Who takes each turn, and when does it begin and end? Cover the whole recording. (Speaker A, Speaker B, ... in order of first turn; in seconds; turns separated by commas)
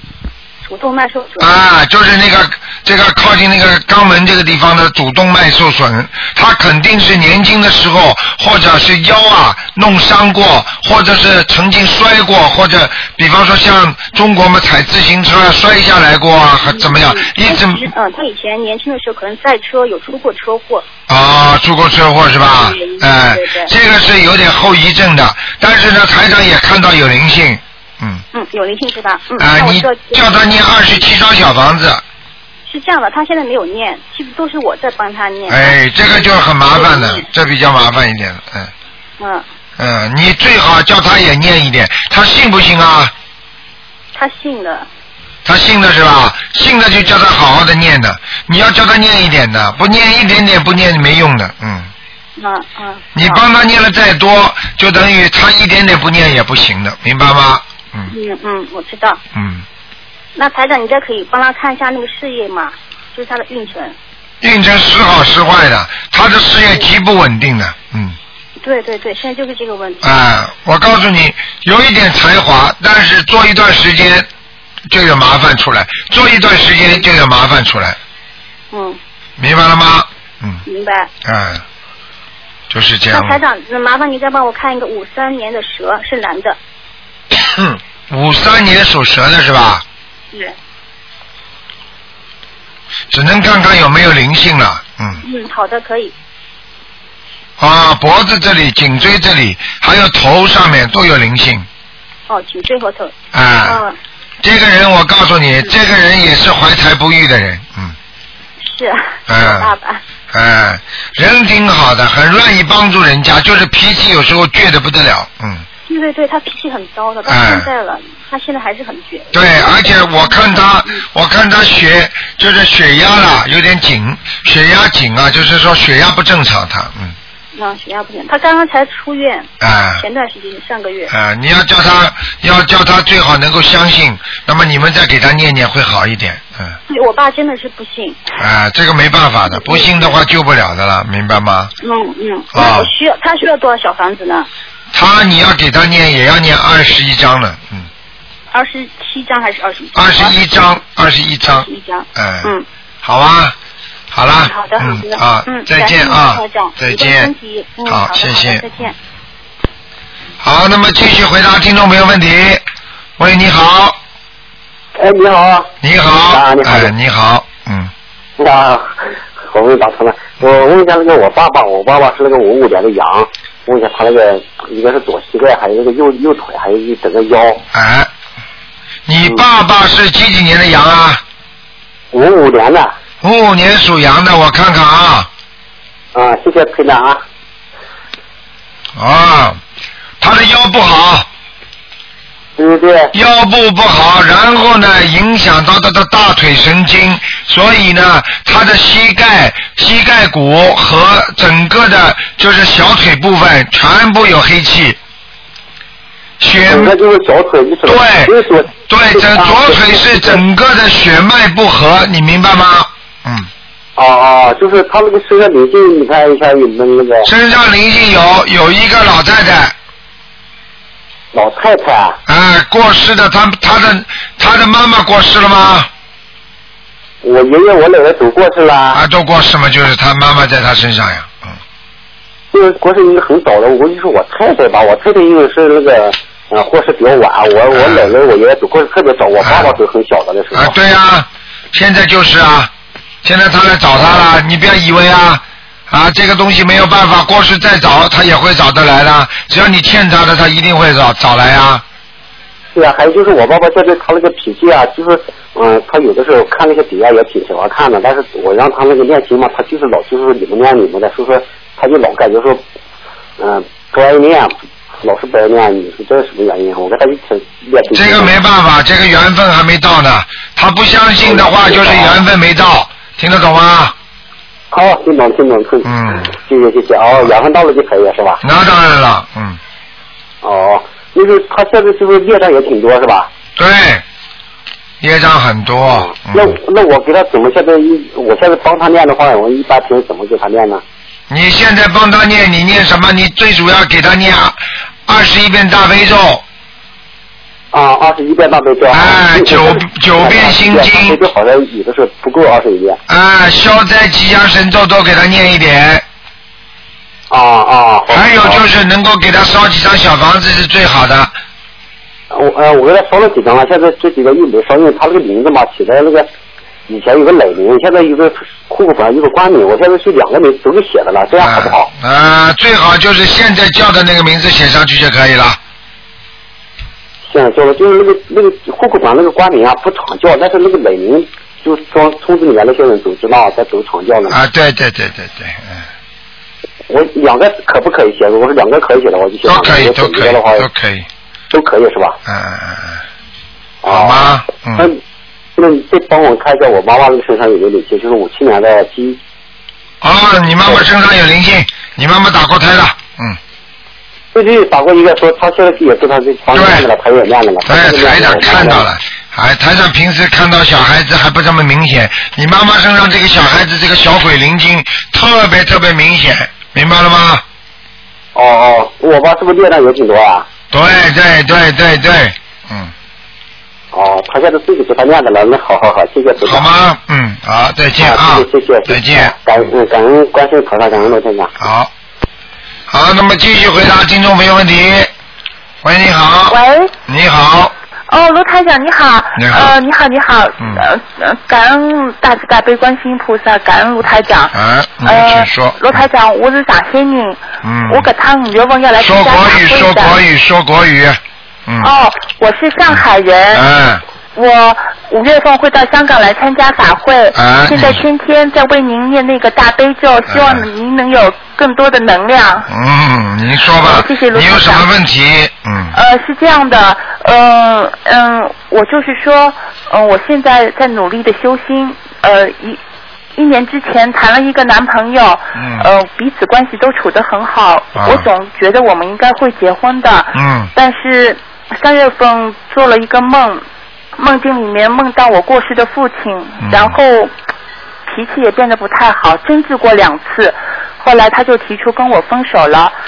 Speaker A: 0.6-1.5, Speaker B: 1.4-17.9, Speaker A: 16.6-20.9, Speaker B: 21.1-28.2, Speaker A: 22.5-23.7, Speaker A: 28.3-30.8, Speaker B: 29.4-32.0, Speaker A: 32.6-37.2, Speaker B: 35.5-38.7, Speaker A: 39.2-39.4, Speaker B: 39.8-43.1, Speaker A: 44.1-44.9, Speaker B: 45.4-51.9, Speaker A: 52.4-53.4, Speaker B: 53.1-58.1, Speaker A: 58.1-59.2, Speaker B: 59.3-59.6, Speaker A: 60.4-64.0, Speaker B: 64.4-68.2, Speaker A: 68.6-70.1, Speaker B: 70.0-74.3, Speaker B: 74.9-78.0, Speaker A: 78.7-79.0, Speaker B: 79.4-80.6, Speaker A: 80.7-81.1, Speaker B: 81.2-81.6, Speaker B: 82.7-83.4, Speaker A: 83.1-86.6, Speaker B: 87.3-89.8, Speaker B: 93.1-95.2, Speaker A: 95.2-96.1, Speaker B: 97.6-101.7, Speaker A: 102.3-103.1, Speaker B: 103.3-103.8, Speaker A: 103.6-104.0, Speaker B: 104.4-108.0, Speaker A: 108.6-110.0, Speaker B: 109.3-109.7, Speaker B: 110.3-115.6, Speaker A: 115.9-121.0, Speaker B: 117.3-117.7, Speaker B: 119.3-127.2, Speaker A: 127.5-131.1, Speaker B: 129.6-130.0, Speaker B: 131.1-136.8, Speaker A: 136.9-138.2, Speaker B: 138.4-141.7, Speaker A: 139.5-140.2, Speaker A: 141.8-144.5, Speaker B: 142.5-142.9, Speaker B: 144.9-147.9, Speaker A: 148.5-150.4, Speaker B: 149.9-153.6, Speaker A: 151.5-152.6, Speaker B: 154.1-157.3, Speaker A: 154.4-158.9, Speaker B: 157.8-158.6, Speaker B: 160.4-162.6, Speaker B: 163.2-164.0, Speaker C: 165.0-165.7, Speaker B: 165.8-167.9, Speaker C: 166.3-166.9, Speaker C: 168.4-177.6, Speaker B: 177.7-178.1, Speaker B: 179.1-181.2, Speaker C: 182.1-182.9, Speaker B: 183.2-185.3, Speaker C: 186.1-187.2, Speaker B: 188.9-189.6, Speaker B: 190.2-191.3, Speaker C: 192.6-193.1, Speaker B: 193.1-205.0, Speaker B: 206.4-206.9, Speaker C: 206.6-210.4, Speaker B: 207.8-213.5, Speaker C: 214.0-217.3, Speaker B: 217.2-219.7, Speaker C: 221.3-222.2, Speaker B: 222.3-225.9, Speaker C: 227.2-229.0, Speaker B: 228.9-231.6, Speaker C: 232.5-240.7, Speaker B: 237.7-238.1, Speaker B: 239.4-239.7, Speaker B: 240.5-242.7, Speaker B: 243.2-251.8, Speaker C: 252.7-262.6, Speaker C: 263.4-268.3, Speaker B: 267.9-273.9, Speaker C: 271.2-272.2, Speaker C: 274.7-278.4, Speaker B: 275.8-276.3, Speaker B: 278.4-279.6, Speaker C: 280.4-283.3, Speaker B: 283.6-284.0, Speaker B: 285.0-286.6, Speaker C: 285.8-290.8, Speaker B: 291.3-296.4, Speaker C: 297.7-303.0, Speaker B: 298.9-301.2, Speaker B: 303.1-306.0, Speaker C: 307.3-308.6, Speaker B: 308.1-311.3, Speaker C: 312.3-316.3, Speaker C: 316.9-321.9, Speaker B: 321.4-325.6, Speaker C: 327.3-334.4, Speaker B: 334.3-335.9, Speaker C: 336.9-340.6, Speaker B: 339.4-341.1, Speaker C: 341.5-342.2, Speaker B: 342.2-343.0, Speaker C: 343.8-345.0, Speaker B: 343.9-344.9, Speaker C: 345.6-349.2, Speaker B: 350.0-353.4, Speaker C: 354.3-358.8, Speaker B: 356.5-356.9, Speaker B: 357.6-367.4, Speaker C: 368.3-370.5, Speaker B: 370.7-372.9, Speaker C: 373.9-376.7, Speaker B: 376.4-379.3, Speaker C: 378.0-381.5, Speaker B: 381.6-381.9, Speaker B: 382.9-385.1, Speaker B: 385.8-387.7, Speaker D: 386.5-386.9, Speaker D: 388.1-400.2, Speaker B: 389.4-389.7, Speaker B: 394.5-396.0, Speaker B: 397.6-398.1, Speaker B: 399.0-401.9, Speaker D: 401.8-403.6, Speaker B: 402.9-404.0, Speaker D: 404.3-412.7, Speaker B: 407.3-408.0, Speaker B: 410.3-410.6, Speaker B: 412.7-415.9, Speaker D: 413.8-414.9, Speaker D: 415.9-422.8, Speaker D: 423.4-433.6, Speaker B: 425.5-425.9, Speaker B: 427.9-428.3, Speaker B: 430.3-430.7, Speaker D: 434.1-437.3, Speaker B: 436.6-437.0, Speaker D: 438.1-442.9